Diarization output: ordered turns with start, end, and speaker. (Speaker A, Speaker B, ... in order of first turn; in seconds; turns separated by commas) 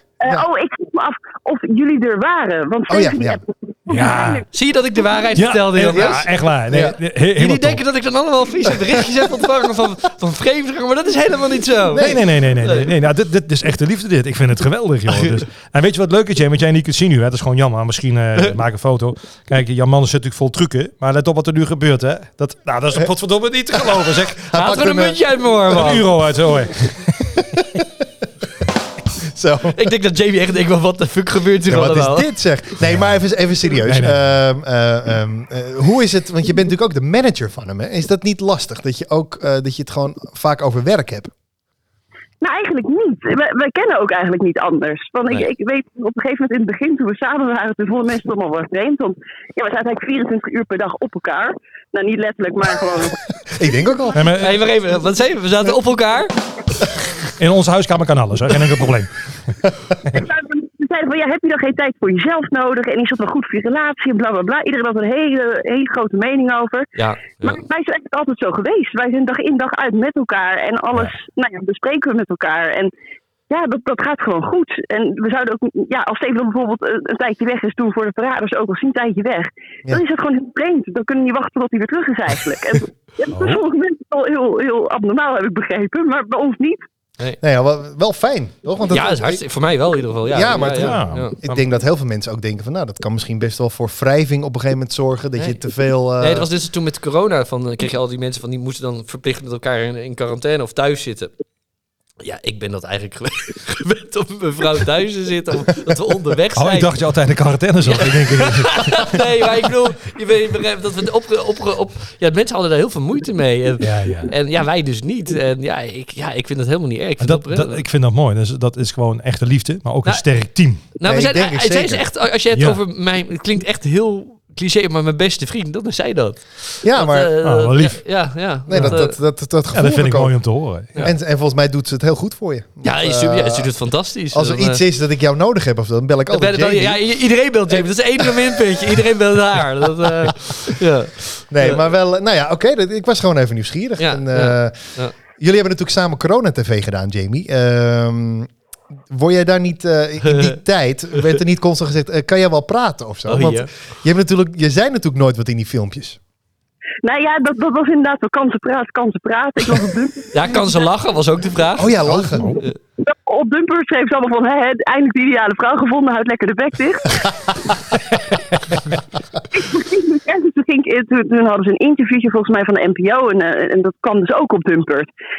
Speaker A: 0.2-4.5, Speaker B: 2.9-3.4, Speaker C: 3.9-4.4, Speaker D: 4.5-6.2, Speaker C: 5.4-7.8, Speaker B: 5.9-7.0, Speaker D: 7.4-12.9, Speaker B: 11.9-12.2, Speaker C: 12.0-24.5, Speaker B: 24.4-25.2, Speaker D: 24.5-26.1, Speaker C: 25.7-27.4, Speaker B: 27.4-27.9, Speaker B: 29.2-29.9, Speaker D: 29.7-32.3, Speaker B: 31.7-41.3, Speaker C: 32.8-33.2, Speaker C: 33.8-34.2, Speaker A: 42.4-53.3, Speaker B: 53.5-54.2, Speaker C: 54.1-54.6, Speaker D: 54.3-56.3, Speaker C: 57.4-59.6, Speaker A: 60.1-66.9, Speaker D: 67.0-67.6, Speaker A: 67.4-72.9, Speaker A: 73.5-86.8, Speaker C: 83.3-83.6, Speaker B: 87.4-89.4, Speaker D: 88.9-91.4, Speaker B: 90.3-96.5, Speaker C: 90.8-91.6, Speaker D: 96.2-101.3, Speaker D: 102.2-106.9, Speaker C: 106.5-109.2, Speaker D: 107.8-117.8, Speaker C: 113.8-114.3, Speaker C: 117.2-120.8, Speaker D: 121.0-129.2, Speaker B: 121.0-122.1, Speaker C: 122.5-122.8, Speaker B: 126.8-127.4, Speaker C: 127.4-128.0, Speaker B: 128.7-130.5, Speaker C: 128.8-129.0, Speaker C: 129.7-131.0, Speaker B: 131.0-133.7, Speaker D: 132.8-134.8, Speaker B: 134.3-137.0, Speaker D: 136.3-141.8, Speaker B: 138.2-138.6, Speaker B: 141.5-148.5, Speaker D: 144.0-145.1, Speaker B: 149.1-156.2, Speaker D: 150.2-150.6, Speaker D: 153.3-153.7, Speaker A: 157.0-160.6, Speaker D: 160.3-162.0, Speaker B: 161.8-162.6, Speaker C: 162.0-162.6, Speaker A: 163.0-168.0, Speaker A: 169.5-175.1